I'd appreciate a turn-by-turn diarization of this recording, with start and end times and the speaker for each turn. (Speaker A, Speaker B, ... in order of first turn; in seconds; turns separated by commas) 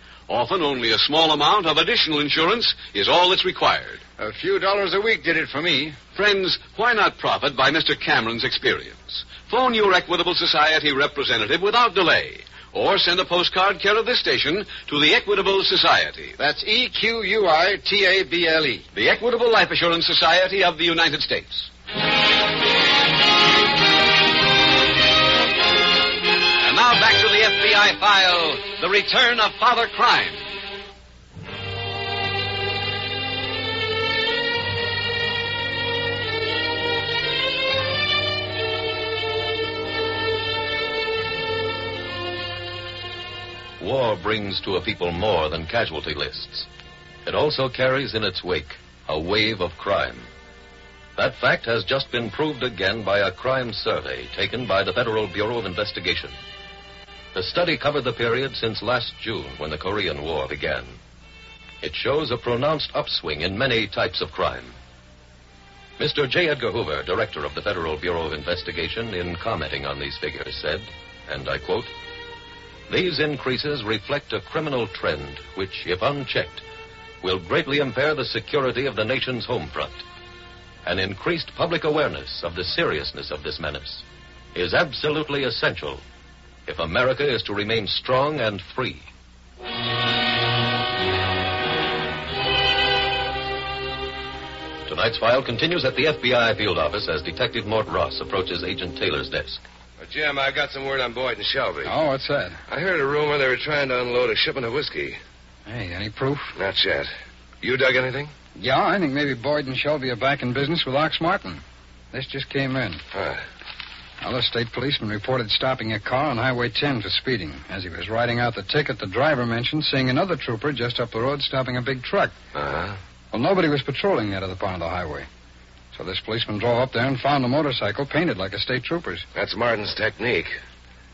Speaker A: 0.3-4.0, Speaker B: 4.2-6.0, Speaker A: 6.2-16.4, Speaker B: 16.4-18.8, Speaker A: 18.9-21.7, Speaker A: 26.6-30.4, Speaker C: 43.8-46.7, Speaker C: 47.2-50.3, Speaker C: 51.2-56.3, Speaker C: 57.3-61.0, Speaker C: 61.8-64.8, Speaker C: 66.0-71.9, Speaker C: 72.9-76.6, Speaker C: 77.2-80.0, Speaker C: 80.8-84.0, Speaker C: 84.5-86.0, Speaker C: 86.7-89.1, Speaker C: 94.9-99.6, Speaker D: 100.0-101.9, Speaker E: 101.8-102.6, Speaker D: 102.7-105.2, Speaker E: 105.7-106.5, Speaker D: 106.6-107.1, Speaker D: 107.6-108.3, Speaker E: 108.6-113.0, Speaker D: 113.1-113.4, Speaker E: 114.2-122.3, Speaker D: 122.5-123.0, Speaker E: 123.3-125.3, Speaker E: 125.9-129.2, Speaker D: 129.3-130.6